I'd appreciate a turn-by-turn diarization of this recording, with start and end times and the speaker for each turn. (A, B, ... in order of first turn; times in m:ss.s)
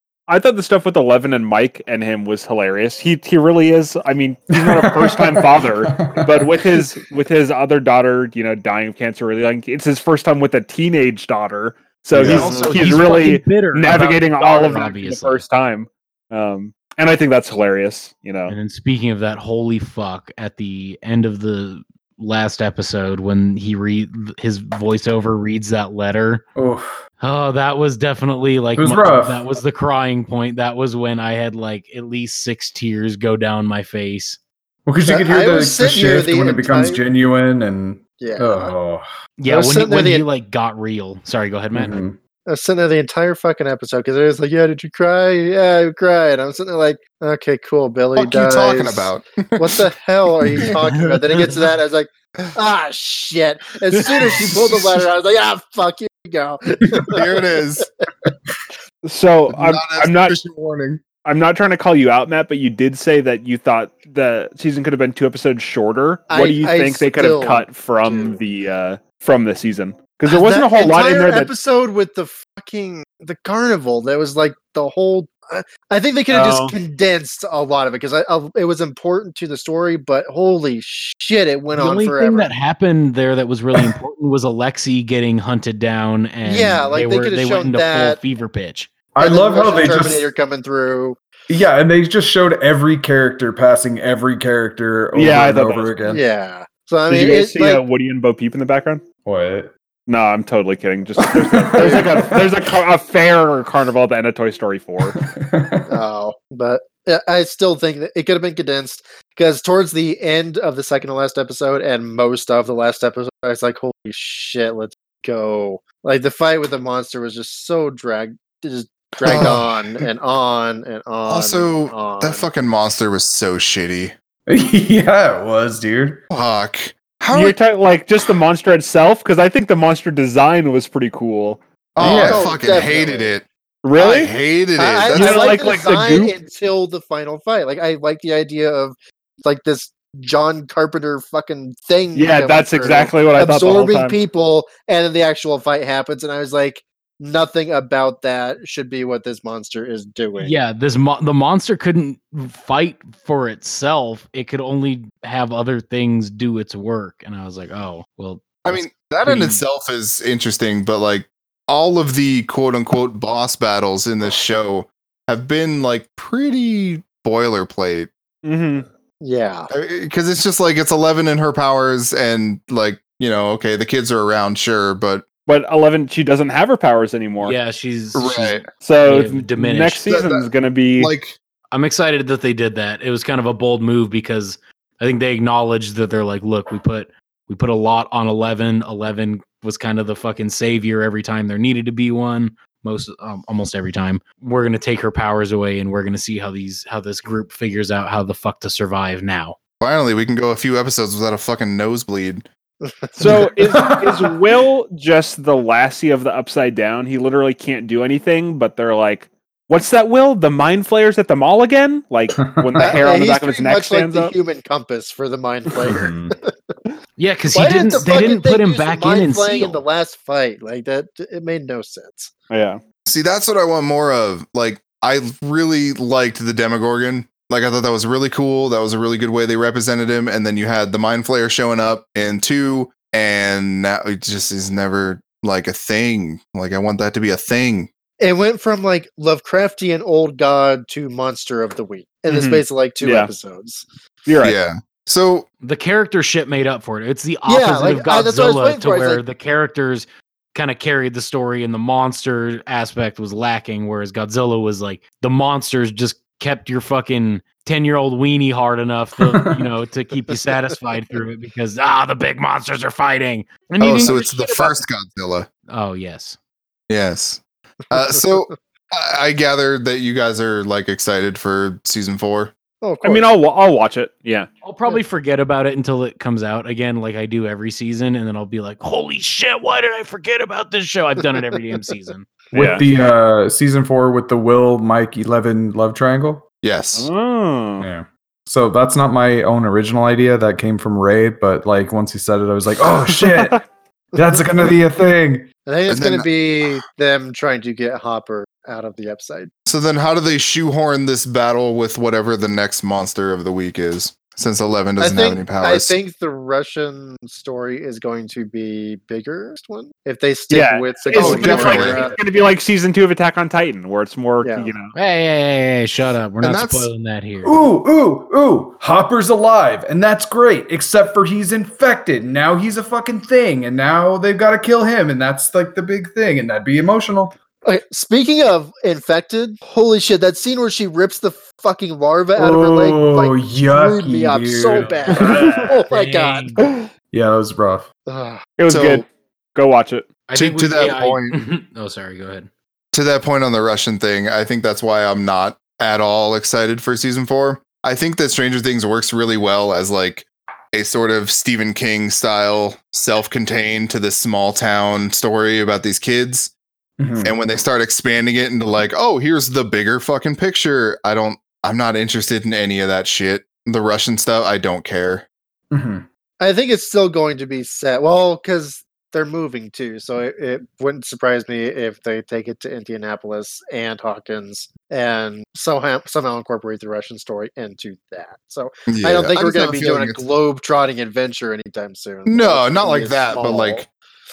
0:00.3-0:18.5 A
0:04.5-0:07.0 B
0:12.1-0:12.9 B
0:12.1-0:15.4 C
0:18.5-0:26.4 C
0:26.6-0:26.9 B
0:27.2-0:34.4 C
0:28.8-0:29.4 B
0:34.8-0:39.0 B
0:35.0-0:37.0 D
0:38.2-0:38.7 D
0:39.4-0:42.0 C
0:39.5-0:40.3 D
0:41.7-0:42.2 B
0:42.5-0:58.0 D
0:48.1-0:49.8 E
0:50.7-0:51.6 C
0:57.1-0:57.8 E
0:59.0-1:00.4 A
0:59.5-1:01.0 E
1:01.2-1:11.5 A
1:06.3-1:08.4 D
1:10.3-1:22.5 D
1:16.3-1:16.8 A
1:21.7-1:28.9 C
1:26.4-1:28.2 D
1:29.1-1:30.3 B
1:29.2-1:31.2 D
1:31.5-1:36.2 B
1:35.1-1:36.0 A
1:36.0-1:37.8 D
1:37.1-1:39.0 A
1:39.2-1:39.7 B
1:40.1-1:45.2 A
1:41.2-1:42.7 B
1:41.7-1:42.0 D
1:45.0-1:45.9 B
1:45.9-2:02.5 D
1:59.2-2:00.0 B
1:59.3-1:59.5 E
2:01.2-2:04.1 E
2:04.5-2:06.2 B
2:06.3-2:07.6 E
2:07.3-2:11.6 A
2:12.0-2:13.4 E
2:12.0-2:12.4 B
2:12.0-2:13.4 D
2:13.8-2:14.3 A
2:14.0-2:15.6 E
2:14.8-2:30.6 D
2:15.1-2:16.3 A
2:22.1-2:24.2 A
2:30.4-2:39.6 C
2:38.6-2:48.1 E
2:48.4-2:48.8 A
2:49.2-2:49.7 D
2:49.7-2:55.2 E
2:55.4-2:57.6 A
2:57.4-3:00.1 C
2:58.1-2:58.7 E
2:58.8-3:01.1 A
3:00.1-3:01.4 E
3:01.7-3:19.6 C
3:19.8-3:22.4 E
3:22.8-3:23.4 D
3:23.2-3:34.3 A
3:23.2-3:24.4 B
3:32.3-3:32.9 B
3:32.8-3:36.7 D
3:35.8-3:36.3 B
3:37.2-3:39.8 C
3:37.5-3:42.3 D
3:42.5-3:42.8 A
3:43.0-3:57.9 E
3:58.2-4:03.8 D
4:02.3-4:03.3 A
4:04.2-4:04.6 A
4:04.4-4:05.5 E
4:05.6-4:24.8 C
4:07.4-4:09.2 D
4:19.2-4:19.6 B
4:23.8-4:25.5 E
4:25.7-4:26.4 C
4:26.9-4:32.5 E
4:32.8-4:33.3 D
4:33.0-4:34.5 A
4:34.6-4:42.3 C
4:42.5-4:42.8 A
4:42.5-4:46.4 B
4:46.6-4:47.1 E
4:46.9-4:47.9 A
4:47.8-4:53.6 B
4:53.2-4:53.6 A
4:54.2-4:54.4 D
4:54.2-4:55.5 B
4:55.6-4:59.5 D
4:55.9-4:56.3 E
4:59.7-5:06.0 E
5:05.0-5:12.2 D
5:10.5-5:14.9 A
5:11.1-5:12.2 B
5:11.1-5:12.0 E
5:14.4-5:14.7 D
5:14.9-5:17.7 C
5:16.4-5:16.9 E
5:17.4-5:27.3 B
5:27.6-5:36.7 D
5:32.4-5:35.5 B
5:34.7-5:35.3 C
5:35.1-5:35.8 A
5:35.9-5:36.7 C
5:37.1-5:37.9 B
5:38.1-5:38.4 D
5:38.6-5:40.1 A
5:38.7-5:39.0 E
5:40.3-5:42.5 C
5:40.3-5:41.4 E
5:42.9-5:56.5 E
5:57.0-5:57.3 B
5:57.2-6:05.2 E
6:05.7-6:06.1 B
6:06.4-6:23.9 D
6:18.9-6:20.2 E
6:22.3-6:23.9 E